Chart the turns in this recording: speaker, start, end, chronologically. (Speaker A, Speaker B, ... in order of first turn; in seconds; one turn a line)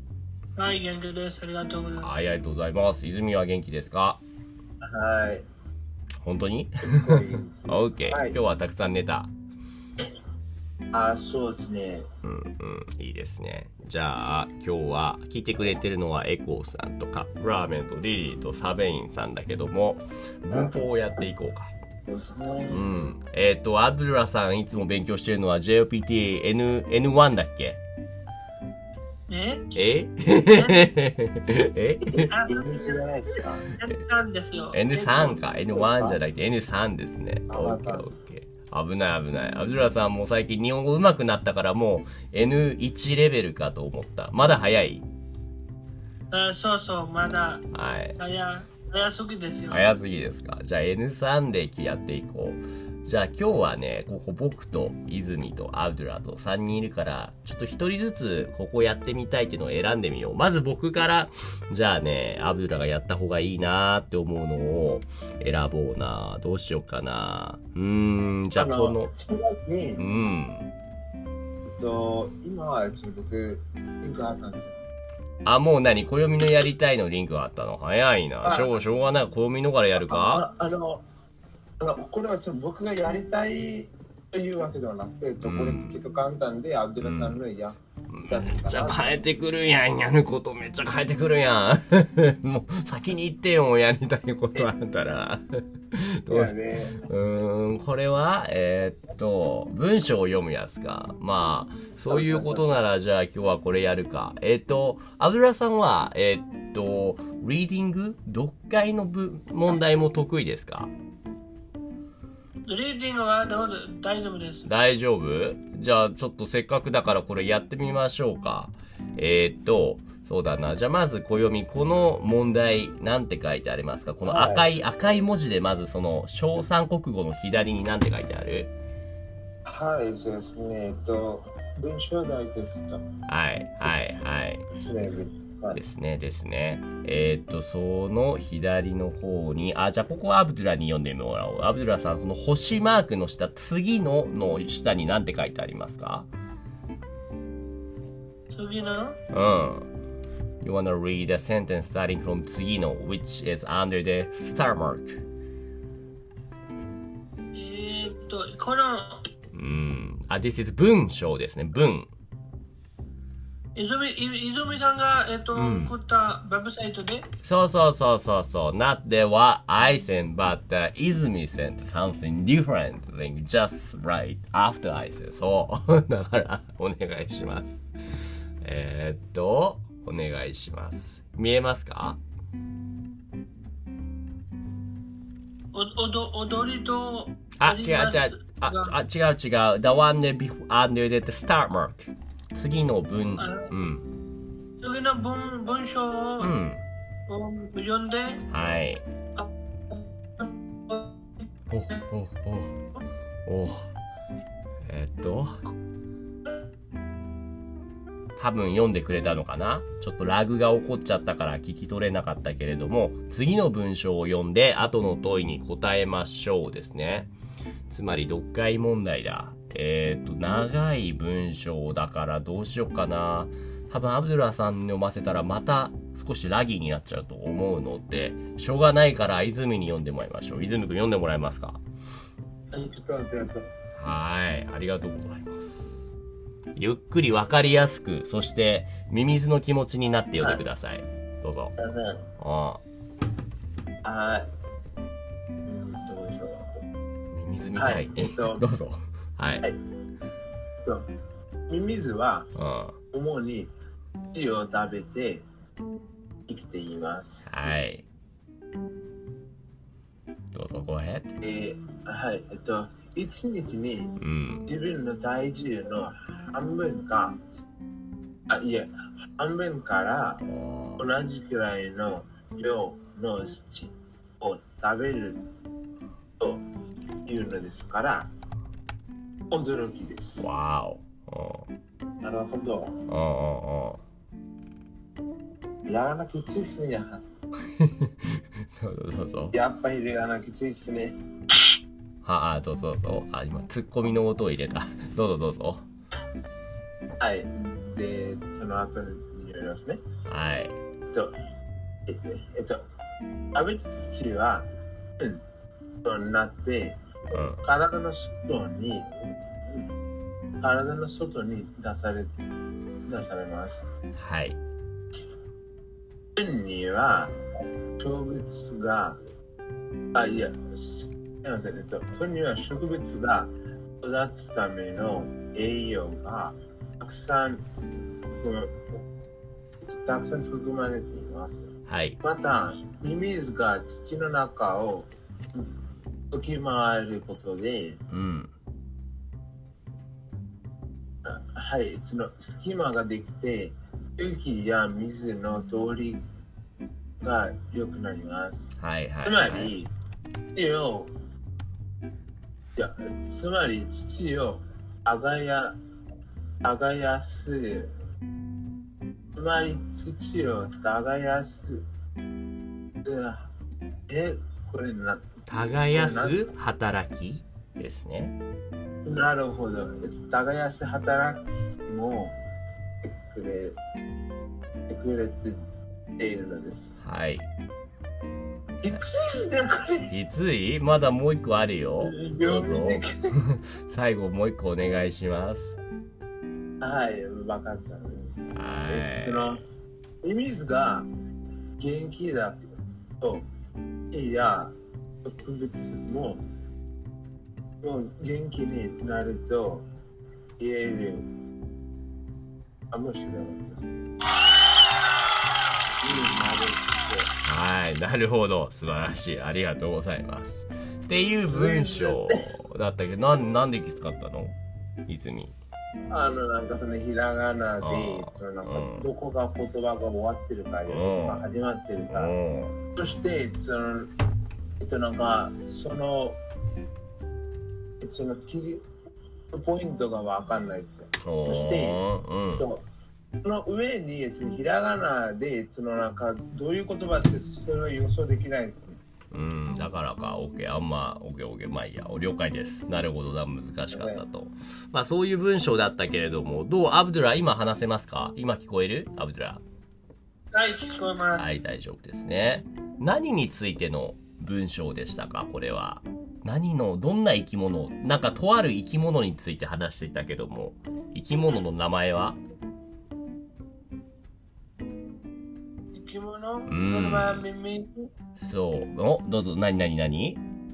Speaker A: 0.6-2.1
Speaker B: 2.0-4.2
Speaker C: 4.8-5.5
Speaker B: 6.2-9.3
Speaker C: 6.8-8.4
Speaker C: 10.9-12.1
Speaker B: 12.2-21.7
Speaker C: 22.1-22.9
Speaker B: 22.7-27.8
Speaker A: 29.3-29.8
Speaker B: 29.8-32.3
Speaker A: 30.4-30.9
Speaker A: 32.3-33.0
Speaker C: 32.4-33.6
Speaker A: 33.8-35.4
Speaker B: 34.7-45.1
Speaker C: 35.7-36.2
Speaker C: 37.5-38.2
Speaker A: 46.3-47.6
Speaker B: 47.7-48.2
Speaker A: 48.2-49.9
Speaker B: 49.7-69.1
Speaker C: 68.6-70.0
Speaker B: 70.0-70.7
Speaker C: 71.7-74.7
Speaker B: 75.5-80.5
Speaker C: 78.4-78.7
Speaker C: 80.0-81.0
Speaker C: 81.8-89.2
Speaker B: 85.4-86.0
Speaker B: 87.0-87.4
Speaker B: 88.1-110.9
Speaker C: 96.3-97.1
Speaker C: 102.1-102.7
Speaker A: 112.7-114.7
Speaker B: 114.7-128.7
Speaker C: 124.2-124.7
Speaker C: 129.7-133.1
Speaker B: 133.3-134.7
Speaker C: 134.7-135.8
Speaker B: 135.7-146.3
Speaker A: 148.5-149.2
Speaker B: 149.3-149.9
Speaker B: 150.6-155.2
Speaker A: 157.5-159.2
Speaker B: 159.5-162.1
Speaker A: 163.8-167.3
Speaker B: 165.5-165.9
Speaker B: 167.4-177.8
Speaker B: 178.6-182.2
Speaker A: 185.7-188.9
Speaker B: 187.6-194.1
Speaker A: 193.4-193.7
Speaker A: 194.8-196.5
Speaker B: 196.4-196.8
Speaker A: 197.3-198.4
Speaker B: 198.5-199.1
Speaker A: 199.4-201.5
Speaker B: 201.7-202.8
Speaker B: 203.5-203.9
Speaker B: 204.8-205.6
Speaker B: 208.4-217.3
Speaker B: 217.9-231.8
Speaker C: 232.7-233.7
Speaker B: 234.0-236.0
Speaker B: 236.8-241.8
Speaker C: 240.4-240.6
Speaker C: 241.8-242.2
Speaker B: 242.4-242.8
Speaker C: 244.0-244.5
Speaker C: 245.7-246.7
Speaker B: 247.3-249.7
Speaker C: 247.8-248.6
Speaker C: 251.7-252.5
Speaker B: 252.6-253.0
Speaker C: 253.1-253.7
Speaker C: 254.3-255.4
Speaker C: 256.5-257.5
Speaker B: 257.5-258.1
Speaker B: 260.5-261.4
Speaker C: 261.4-267.4
Speaker B: 264.2-264.7
Speaker C: 268.5-270.4
Speaker B: 270.4-271.1
Speaker C: 271.0-275.4
Speaker C: 277.3-278.3
Speaker C: 279.5-280.5
Speaker B: 280.4-281.7
Speaker C: 282.2-283.0
Speaker B: 283.1-284.0
Speaker C: 285.9-287.2
Speaker B: 287.6-289.6
Speaker C: 289.5-291.2
Speaker B: 292.2-295.9
Speaker C: 297.2-300.0
Speaker B: 300.3-300.8
Speaker C: 302.1-302.8
Speaker C: 303.5-304.7
Speaker C: 306.0-307.0
Speaker B: 307.3-307.6
Speaker C: 307.6-309.1
Speaker C: 310.6-312.3
Speaker C: 313.1-313.9
Speaker B: 314.2-314.6
Speaker C: 316.4-317.4
Speaker C: 318.0-319.2
Speaker C: 320.1-327.6
Speaker C: 328.4-328.8
Speaker C: 329.9-331.7
Speaker B: 331.9-332.2
Speaker C: 332.2-335.7
Speaker C: 336.3-338.0
Speaker B: 338.1-338.5
Speaker C: 341.3-346.2
Speaker C: 347.2-348.7
Speaker B: 348.8-349.7
Speaker C: 349.2-349.9
Speaker C: 350.6-351.1
Speaker C: 352.8-355.8
Speaker C: 356.6-357.9
Speaker C: 359.4-361.8
Speaker C: 363.0-363.5
Speaker C: 364.1-365.2
Speaker B: 365.5-368.4
Speaker C: 365.9-366.5
Speaker C: 369.1-372.4
Speaker C: 373.0-373.8
Speaker C: 374.9-375.6
Speaker C: 376.2-377.0
Speaker B: 377.0-377.5
Speaker C: 378.8-380.1
Speaker B: 380.1-385.8
Speaker C: 382.0-383.4
Speaker C: 386.8-389.6
Speaker B: 388.5-389.6
Speaker C: 390.2-391.1
Speaker C: 391.8-393.5
Speaker C: 394.1-396.4
Speaker C: 397.8-399.9
Speaker C: 400.6-401.3
Speaker C: 402.9-403.8
Speaker C: 406.0-407.3
Speaker B: 407.4-415.6
Speaker C: 411.5-412.5
Speaker C: 416.1-422.4
Speaker B: 417.8-419.1
Speaker B: 420.9-421.5
Speaker B: 422.1-422.8
Speaker C: 422.9-424.1
Speaker C: 424.8-426.4
Speaker C: 428.0-428.8
Speaker C: 429.5-432.0
Speaker B: 431.2-432.7
Speaker C: 432.5-432.9
Speaker C: 433.4-439.0
Speaker B: 439.3-449.6
Speaker C: 443.9-444.2
Speaker A: 450.5-451.5
Speaker B: 451.4-462.4
Speaker A: 465.9-468.1
Speaker B: 466.7-467.5
Speaker B: 468.4-470.4